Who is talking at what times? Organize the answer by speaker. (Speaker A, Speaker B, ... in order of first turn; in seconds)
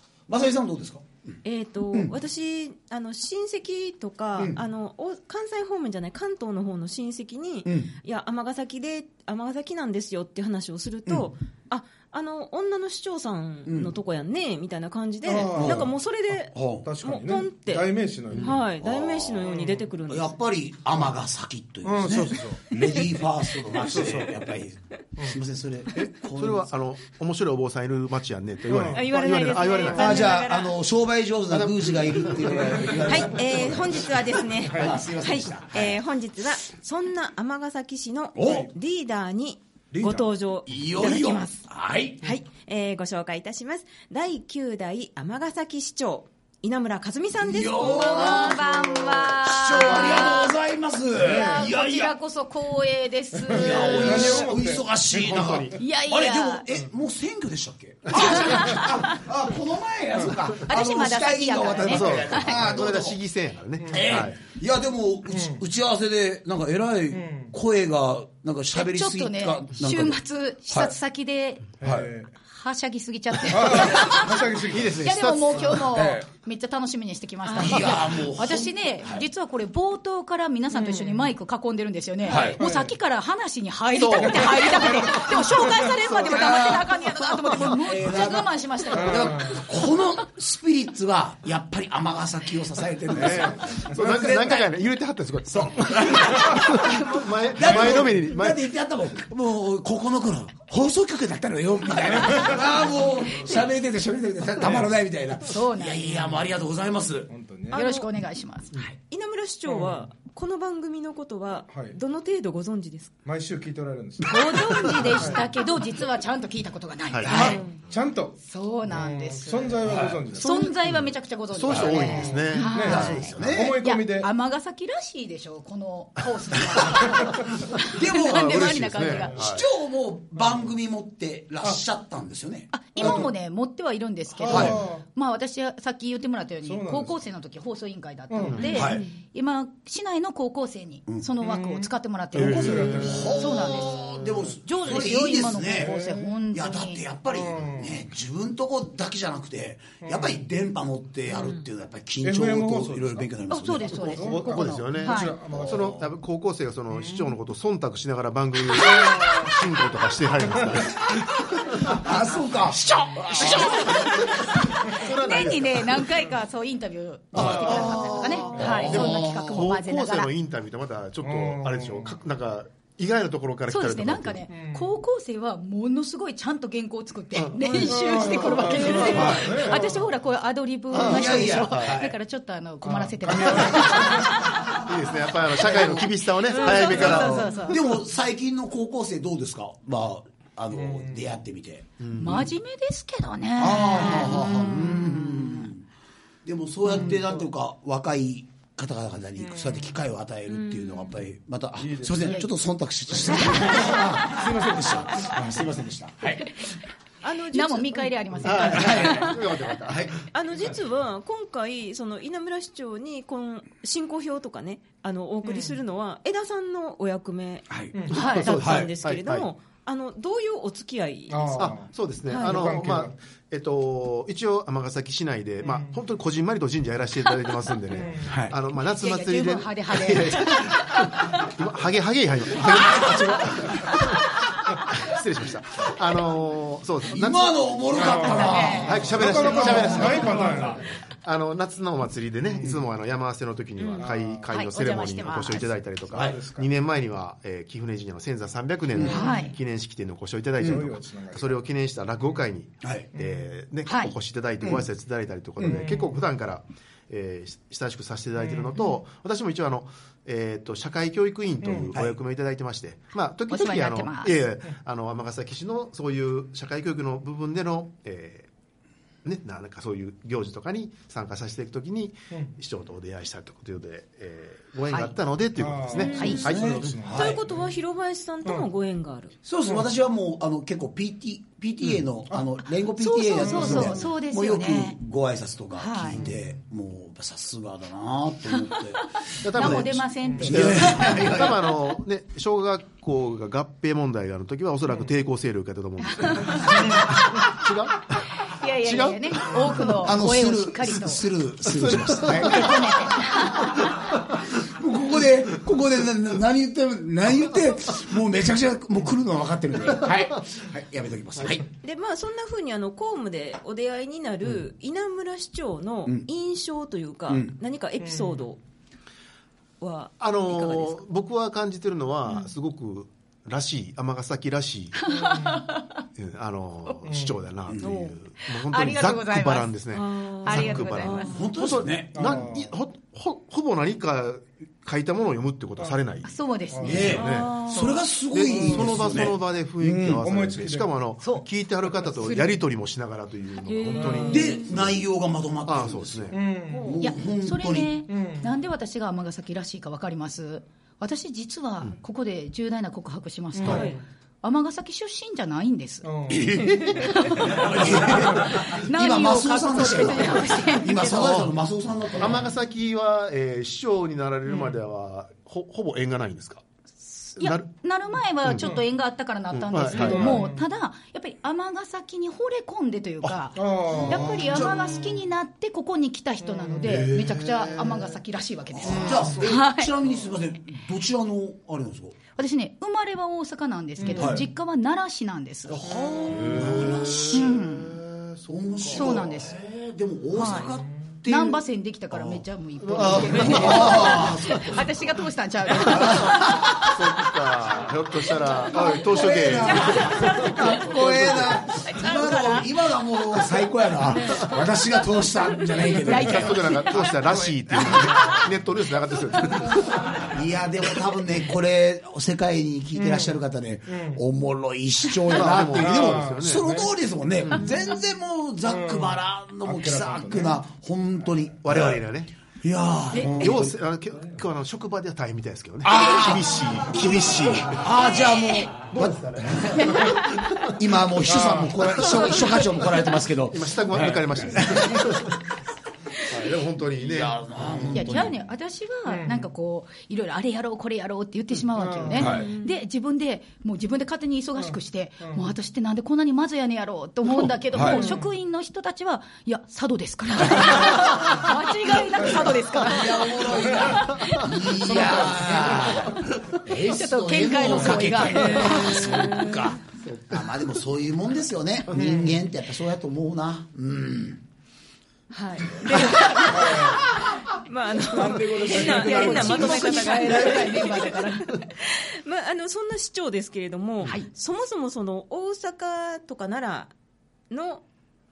Speaker A: 0.3-1.4, 7.6-7.9, 13.7-13.9, 15.6-15.9, 16.5-16.9, 18.3-19.5, 20.1-26.7, 29.9-36.0, 38.4-38.7, 39.9-42.2, 47.4-52.1, 53.5-63.2, 63.9-70.9, 71.8-72.1, 75.9-76.2, 77.5-79.2, 82.3-82.6, 85.7-94.7, 95.5-107.3, 119.8-120.2, 121.7-122.0, 122.8-123.8, 127.8-133.3, 134.5-134.8, 138.7-139.0, 142.8-145.9, 146.5-154.4, 160.8-164.6, 167.3-169.7, 179.1-179.6, 180.9-182.2, 183.3-184.1, 186.5-192.4, 193.6-195.8, 196.4-206.6, 208.7-209.3, 217.7-217.9, 218.6-218.9, 228.2-228.5, 232.6-233.4, 237.1-240.5, 246.1-246.4, 252.8-253.1, 254.6-254.9, 276.2-277.4, 279.4-291.6, 299.8-311.7, 317.3-317.5, 327.7-328.0, 331.2-332.4, 336.8-340.2, 344.3-347.9, 356.3-362.4, 374.4-374.8, 378.7-382.2, 384.1-384.4, 385.9-387.5, 388.4-391.6, 393.0-394.9, 395.8-396.4, 398.7-406.8, 410.3-422.1, 422.6-423.7, 425.8-435.3, 436.9-438.3, 442.2-442.5, 447.7-448.0, 452.6-464.4, 468.1-471.1
Speaker B: 1.4-20.3, 28.9-30.8, 33.0-41.5, 42.2-50.4, 77.5-77.8, 107.7-108.0, 109.1-113.1, 117.3-117.7, 138.7-139.1, 200.5-201.2, 207.2-209.2, 210.3-221.7, 222.3-222.7, 243.8-244.0, 275.9-276.5, 277.1-279.3, 311.8-318.6, 319.8-321.0, 329.9-331.4, 337.1-338.0, 343.7-344.7, 346.7-347.0, 353.6-354.0, 399.9-400.6, 402.1-402.6, 442.2-442.7, 447.9-448.1, 458.3-459.7, 465.3-476.9, 477.5-477.8
Speaker C: 15.2-15.9, 16.8-18.6, 19.4-19.8, 21.8-22.7, 23.8-24.4, 28.7-29.0, 32.5-33.1, 34.6-35.0, 51.3-51.6, 53.5-54.9, 65.3-65.6, 67.1-67.5, 71.8-72.3, 73.5-75.0, 82.6-82.9, 89.0-89.6, 93.1-93.9, 104.6-104.9, 106.1-106.4, 107.3-107.8, 109.7-110.0, 111.7-112.0, 113.2-115.5, 117.3-120.9, 122.2-124.3, 133.0-133.3, 134.4-135.0, 136.6-137.2, 138.3-138.7, 141.4-143.4, 145.8-146.4, 147.3-147.9, 150.0-150.4, 152.2-153.2, 154.2-156.1, 156.9-157.3, 171.2-172.1, 174.5-174.9, 177.8-180.1, 182.8-184.4, 190.7-191.2, 196.9-197.3, 199.5-199.8, 201.9-202.3, 221.3-223.1, 225.6-226.0, 227.9-228.4, 237.9-240.9, 242.5-242.8, 243.9-244.5, 246.1-246.7, 250.6-251.6, 255.6-256.2, 258.4-258.8, 261.6-261.9, 275.6-277.6, 283.5-283.9, 318.0-318.4, 325.1-325.6, 327.0-327.3, 332.1-332.7, 336.7-337.2, 338.4-339.3, 340.0-340.9, 343.9-344.3, 346.3-347.0, 348.1-348.5, 353.6-354.0, 356.0-356.9, 358.0-358.6, 369.9-370.6, 373.5-374.8, 376.5-377.1, 407.9-408.4, 413.0-413.4, 413.9-414.2, 415.5-416.9, 418.6-420.6, 423.2-423.5, 431.2-432.2, 439.1-439.4, 441.7-442.5, 444.7-445.5, 447.7-448.2, 461.9-462.3, 466.5-467.1, 468.2-469.3
Speaker D: 26.3-30.3, 31.5-32.9, 55.1-55.8, 61.9-64.4, 74.7-76.1, 83.9-85.3, 93.9-98.6, 117.1-117.6, 121.5-123.5, 128.3-129.6, 138.5-138.8, 142.4-143.2, 154.4-162.0, 163.3-166.1, 167.3-174.5, 177.3-178.0, 179.1-179.5, 180.9-182.0, 184.5-187.6, 192.0-192.5, 208.4-210.3, 218.1-219.5, 221.6-268.5, 269.2-277.0, 289.4-300.0, 301.7-303.1, 320.2-325.1, 326.1-345.0, 345.6-346.4, 361.1-361.5, 362.2-366.6, 367.4-367.6, 369.5-370.4, 376.8-378.1, 378.9-379.2, 385.8-389.2, 392.8-394.7, 395.9-401.6, 406.1-410.1, 415.3-416.7, 417.4-417.7, 421.6-422.3, 423.2-427.9, 428.9-430.7, 433.5-435.4, 436.2-438.0
Speaker E: 41.1-41.5, 47.8-50.5, 51.2-54.4, 55.8-56.7, 58.1-59.1, 60.7-62.6, 68.7-71.8, 72.5-89.6, 105.5-106.0, 107.7-108.7, 114.2-117.6, 118.4-129.4, 132.7-147.0, 153.5-155.4, 163.3-170.3, 173.7-184.8, 185.5-188.0, 192.2-195.7, 207.5-209.5, 218.1-218.6, 228.7-231.1, 238.0-240.2, 244.5-245.7, 249.0-249.5, 253.8-254.1, 263.5-264.4, 276.1-276.4, 283.0-285.0, 285.8-286.3, 288.6-289.0, 289.5-291.5, 296.1-297.0, 298.4-301.2, 302.5-303.7, 325.0-326.0, 327.8-329.7, 330.4-331.4, 336.2-338.0, 342.2-342.5, 347.0-356.1, 356.9-361.3, 367.0-379.9, 382.3-385.9, 386.7-388.0, 388.9-389.6, 390.3-390.7, 391.2-397.0, 398.7-400.7, 401.8-402.7, 404.1-404.6, 405.8-407.9, 423.1-423.5, 426.9-428.7, 429.7-430.7, 437.9-456.0, 456.8-459.4, 468.6-471.6